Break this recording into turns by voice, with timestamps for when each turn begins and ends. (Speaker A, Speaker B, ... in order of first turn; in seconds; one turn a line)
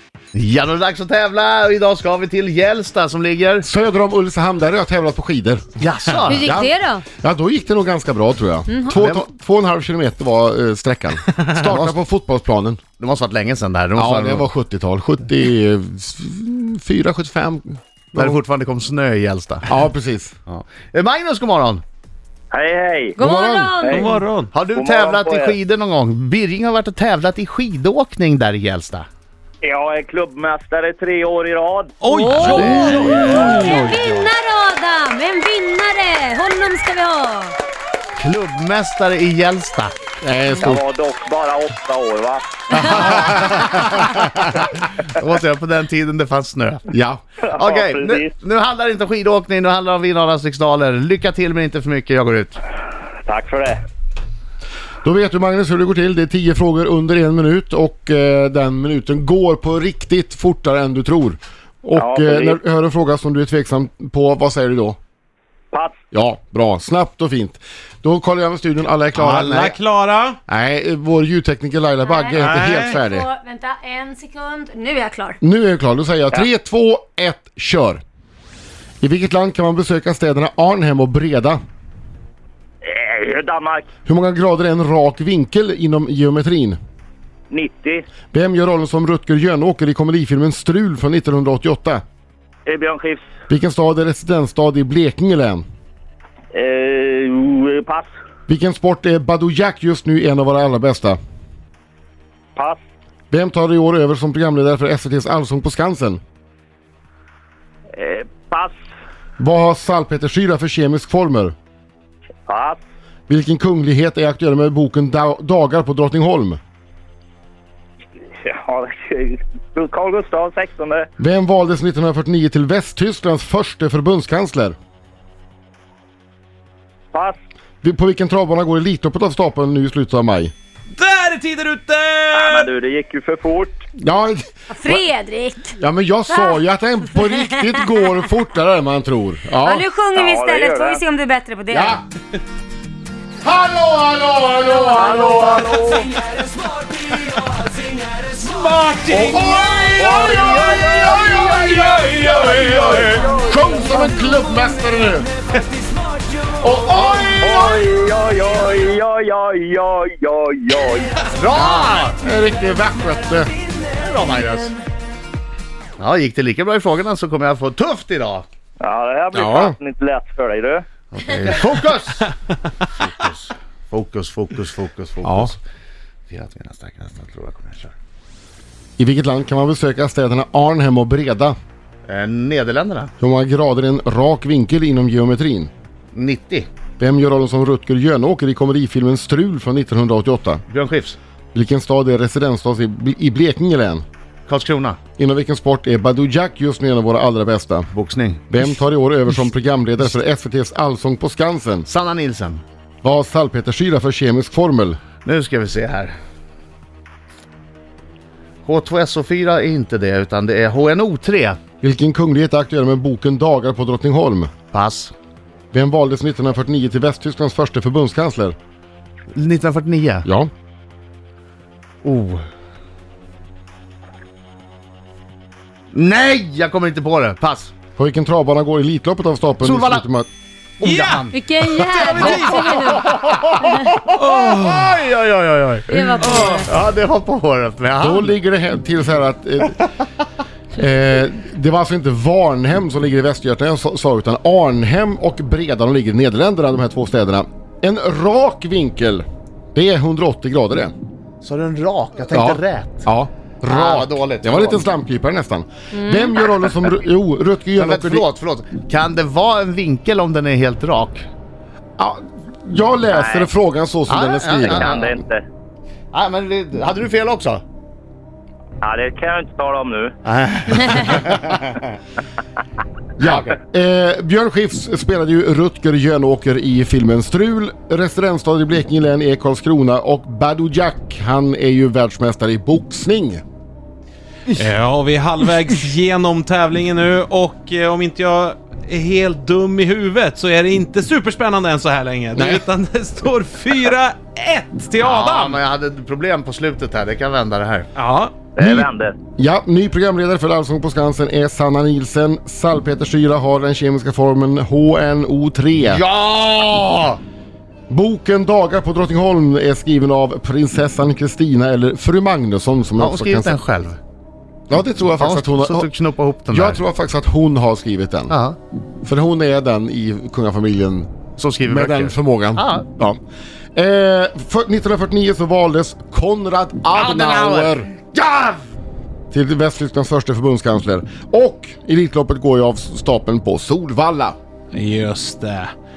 Speaker A: 0.3-3.6
Speaker B: 3.6-5.6
Speaker A: 5.8-6.5
Speaker B: 6.3-12.8
Speaker C: 6.3-7.0
Speaker A: 8.9-9.2
Speaker A: 13.0-14.5
Speaker B: 13.9-18.4
Speaker A: 18.1-19.8
Speaker B: 19.7-20.3
Speaker A: 20.5-21.8
Speaker D: 22.5-23.2
Speaker C: 23.2-24.1
Speaker B: 23.2-23.7
Speaker D: 23.8-24.1
Speaker E: 23.9-24.5
Speaker A: 24.5-29.1
Speaker D: 24.7-25.6
Speaker D: 29.6-31.9
Speaker E: 32.0-34.1
Speaker C: 32.1-37.5
Speaker A: 32.3-34.3
Speaker A: 38.2-40.0
Speaker B: 40.2-40.8
Speaker D: 40.6-42.5
Speaker B: 42.7-44.0
Speaker A: 42.9-46.8
Speaker B: 46.9-47.2
Speaker D: 47.4-48.3
Speaker A: 47.6-52.6
Speaker D: 53.2-53.8
Speaker B: 55.0-65.0
Speaker D: 62.0-62.6
Speaker B: 66.1-69.8
Speaker E: 69.2-70.4
Speaker B: 70.5-73.3
Speaker C: 72.0-75.4
Speaker E: 72.4-73.0
Speaker B: 75.4-78.0
Speaker B: 79.0-81.6
Speaker D: 82.8-83.9
Speaker B: 84.0-86.8
Speaker D: 87.5-88.0
Speaker B: 88.3-92.0
Speaker D: 92.7-93.3
Speaker B: 93.5-95.6
Speaker D: 96.5-98.1
Speaker B: 98.5-101.2
Speaker B: 103.3-106.2
Speaker D: 108.0-108.8
Speaker B: 109.4-111.5
Speaker D: 112.5-112.8
Speaker B: 113.3-116.6
Speaker D: 118.4-121.1
Speaker B: 121.2-124.7
Speaker D: 127.1-127.4
Speaker B: 127.8-130.5
Speaker E: 130.9-132.7
Speaker D: 132.3-133.8
Speaker B: 134.0-135.0
Speaker C: 134.7-135.7
Speaker B: 135.8-139.8
Speaker C: 136.3-136.6
Speaker C: 137.5-137.8
Speaker C: 139.6-142.0
Speaker D: 140.1-141.0
Speaker B: 141.7-142.0
Speaker B: 143.4-146.2
Speaker D: 144.9-146.1
Speaker E: 148.3-153.1
Speaker B: 149.1-155.3
Speaker D: 150.0-153.9
Speaker B: 156.6-157.8
Speaker D: 157.4-161.3
Speaker A: 161.3-162.2
Speaker B: 161.6-163.5
Speaker A: 163.8-164.8
Speaker A: 166.0-168.4
Speaker D: 168.8-170.8
Speaker B: 169.3-169.8
Speaker A: 171.1-175.6
Speaker B: 175.2-175.5
Speaker A: 176.3-177.9
Speaker B: 179.0-181.6
Speaker A: 182.1-183.1
Speaker B: 183.2-185.7
Speaker A: 186.1-186.7
Speaker B: 187.0-190.6
Speaker A: 190.7-191.2
Speaker B: 191.5-194.0
Speaker A: 194.5-195.0
Speaker B: 195.2-197.9
Speaker A: 197.9-198.6
Speaker B: 198.5-201.9
Speaker A: 201.9-202.6
Speaker B: 203.0-205.0
Speaker A: 205.2-206.1
Speaker A: 208.6-211.6
Speaker B: 211.8-214.5
Speaker A: 214.7-215.1
Speaker B: 215.7-218.6
Speaker A: 219.3-220.2
Speaker B: 220.2-220.5
Speaker A: 222.0-222.4
Speaker A: 225.9-227.7
Speaker B: 228.0-230.3
Speaker A: 229.6-230.1
Speaker A: 230.8-231.4
Speaker E: 230.8-233.0
Speaker C: 231.3-234.0
Speaker A: 232.1-238.3
Speaker E: 234.1-235.0
Speaker C: 235.9-236.7
Speaker B: 238.0-239.8
Speaker B: 240.7-250.9
Speaker A: 251.4-253.1
Speaker B: 252.3-258.2
Speaker A: 253.6-254.9
Speaker A: 257.8-261.2
Speaker B: 262.0-264.9
Speaker D: 263.1-263.5
Speaker A: 264.1-265.1
Speaker D: 264.8-265.4
Speaker A: 266.1-267.6
Speaker D: 268.8-270.1
Speaker A: 270.2-271.9
Speaker B: 273.2-283.4
Speaker A: 273.2-273.6
Speaker E: 284.5-295.6
Speaker B: 292.3-292.6
Speaker A: 295.0-297.9
Speaker E: 297.9-298.3
Speaker D: 298.6-299.1
Speaker B: 298.6-306.0
Speaker A: 305.9-307.2
Speaker B: 307.9-313.6
Speaker A: 313.0-314.0
Speaker B: 314.7-315.9
Speaker A: 315.2-316.8
Speaker B: 316.5-318.3
Speaker A: 318.3-318.6
Speaker B: 319.0-321.1
Speaker A: 321.4-322.9
Speaker B: 321.7-323.2
Speaker B: 323.8-328.6
Speaker A: 326.9-327.8
Speaker B: 329.3-334.4
Speaker E: 334.7-335.7